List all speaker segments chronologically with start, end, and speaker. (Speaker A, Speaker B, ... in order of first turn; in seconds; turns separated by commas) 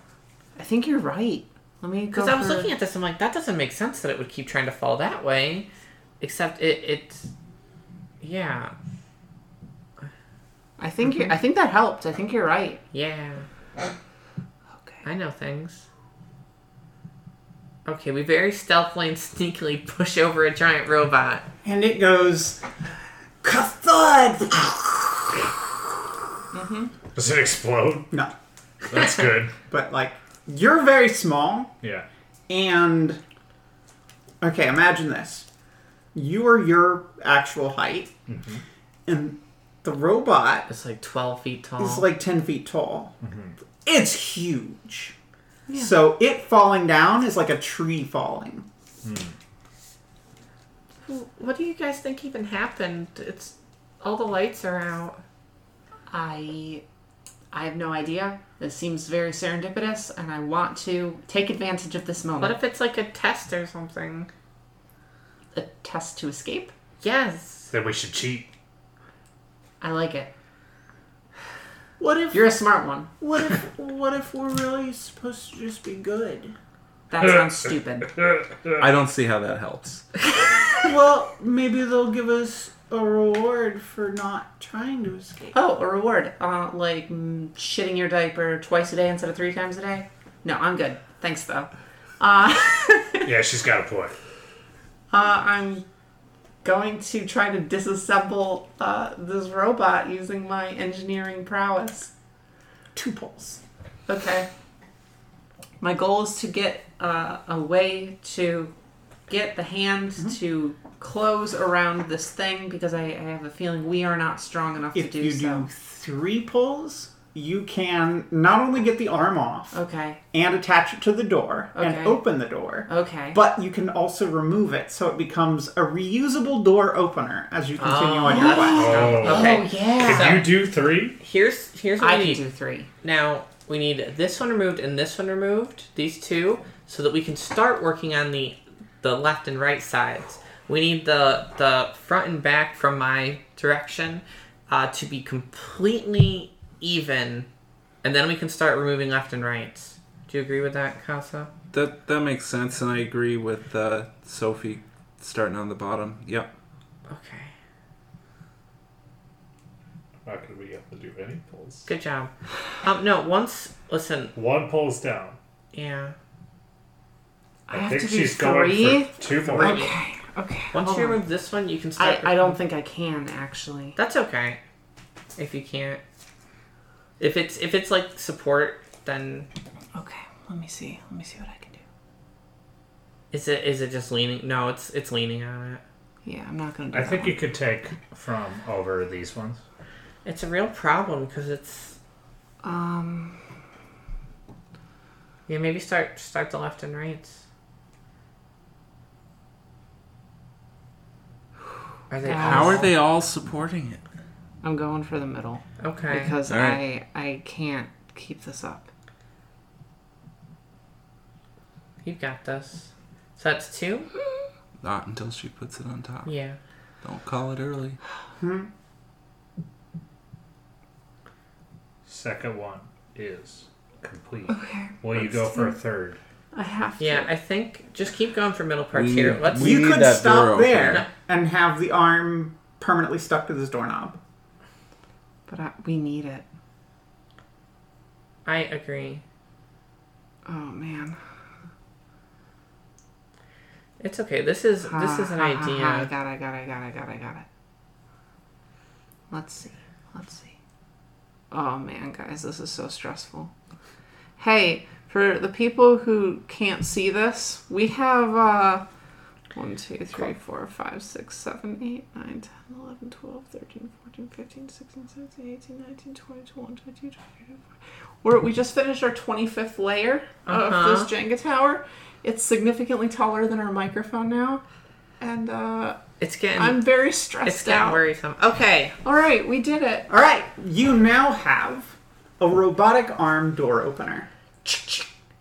Speaker A: 0.6-2.7, Speaker B: 2.1-5.7, Speaker B: 6.2-7.3, Speaker B: 8.2-8.7, Speaker A: 10.8-12.8, Speaker B: 12.9-13.5, Speaker B: 15.0-15.9, Speaker B: 17.8-21.5, Speaker C: 21.6-22.6, Speaker C: 23.4-25.6, Speaker A: 26.5-26.9, Speaker D: 27.1-28.1, Speaker D: 28.9-29.6, Speaker C: 29.6-31.7, Speaker C: 32.5-33.2, Speaker C: 34.4-35.5, Speaker C: 36.1-38.1, Speaker D: 38.3-38.6, Speaker C: 39.1-40.7, Speaker B: 40.7-42.1, Speaker C: 41.8-43.1, Speaker D: 43.2-43.5, Speaker C: 43.8-45.1, Speaker A: 45.7-45.9, Speaker C: 45.7-48.7, Speaker D: 49.0-49.3, Speaker B: 51.0-55.2, Speaker A: 56.1-56.8, Speaker A: 57.5-62.6, Speaker B: 62.4-64.3, Speaker A: 65.5-66.7, Speaker B: 67.0-67.7, Speaker D: 67.7-68.5, Speaker A: 69.8-70.3, Speaker C: 72.0-72.5, Speaker A: 72.3-73.1, Speaker C: 73.2-76.5, Speaker A: 77.1-78.2, Speaker D: 78.2-78.8, Speaker E: 78.8-80.1, Speaker C: 80.8-85.5, Speaker A: 85.5-93.3, Speaker D: 93.2-94.1, Speaker A: 95.1-95.8, Speaker A: 96.6-102.1, Speaker C: 102.9-103.6, Speaker A: 104.1-104.5, Speaker A: 105.8-108.7, Speaker A: 109.3-115.7, Speaker C: 114.9-119.8, Speaker A: 119.7-120.2, Speaker C: 120.3-129.0, Speaker A: 121.7-122.2, Speaker A: 122.9-123.4, Speaker B: 127.8-130.5, Speaker A: 128.2-130.4, Speaker D: 128.7-131.2, Speaker B: 131.2-132.4, Speaker A: 132.0-132.9, Speaker B: 133.0-147.5, Speaker B: 148.0-151.5, Speaker E: 151.7-156.5, Speaker B: 157.1-157.5, Speaker D: 160.2-161.9, Speaker B: 161.9-164.3, Speaker D: 164.3-165.4, Speaker B: 165.7-166.2, Speaker A: 167.7-171.2, Speaker D: 167.7-169.9, Speaker B: 169.6-169.9, Speaker B: 170.7-172.6, Speaker A: 172.0-174.0, Speaker B: 174.0-174.6, Speaker B: 175.3-176.0, Speaker B: 177.2-179.5, Speaker A: 179.9-181.8, Speaker B: 183.3-185.8, Speaker A: 186.2-187.4, Speaker D: 186.9-189.6, Speaker B: 190.2-192.0, Speaker A: 192.6-193.4, Speaker B: 195.5-197.4, Speaker B: 202.1-202.9, Speaker A: 202.2-202.9, Speaker E: 202.3-204.0, Speaker A: 204.6-208.9, Speaker B: 205.8-206.3, Speaker E: 206.5-206.8, Speaker B: 212.0-214.1, Speaker E: 214.8-216.3, Speaker B: 216.2-216.6, Speaker E: 217.0-218.0, Speaker C: 218.4-218.7, Speaker D: 222.1-226.2, Speaker A: 224.5-225.7, Speaker A: 226.5-227.3, Speaker B: 227.0-229.8, Speaker E: 228.9-231.1, Speaker C: 229.5-234.2, Speaker A: 235.5-236.4, Speaker B: 238.4-239.2, Speaker A: 240.4-241.2, Speaker B: 244.0-246.1, Speaker A: 244.9-247.4, Speaker A: 249.3-250.5, Speaker A: 251.5-253.5, Speaker A: 254.4-258.8, Speaker A: 259.5-267.6, Speaker A: 268.2-274.6, Speaker B: 270.5-271.1, Speaker A: 275.2-276.0, Speaker B: 276.2-276.9, Speaker A: 276.6-278.0, Speaker B: 277.4-278.9, Speaker A: 279.0-280.1, Speaker C: 280.1-284.3, Speaker A: 284.6-285.1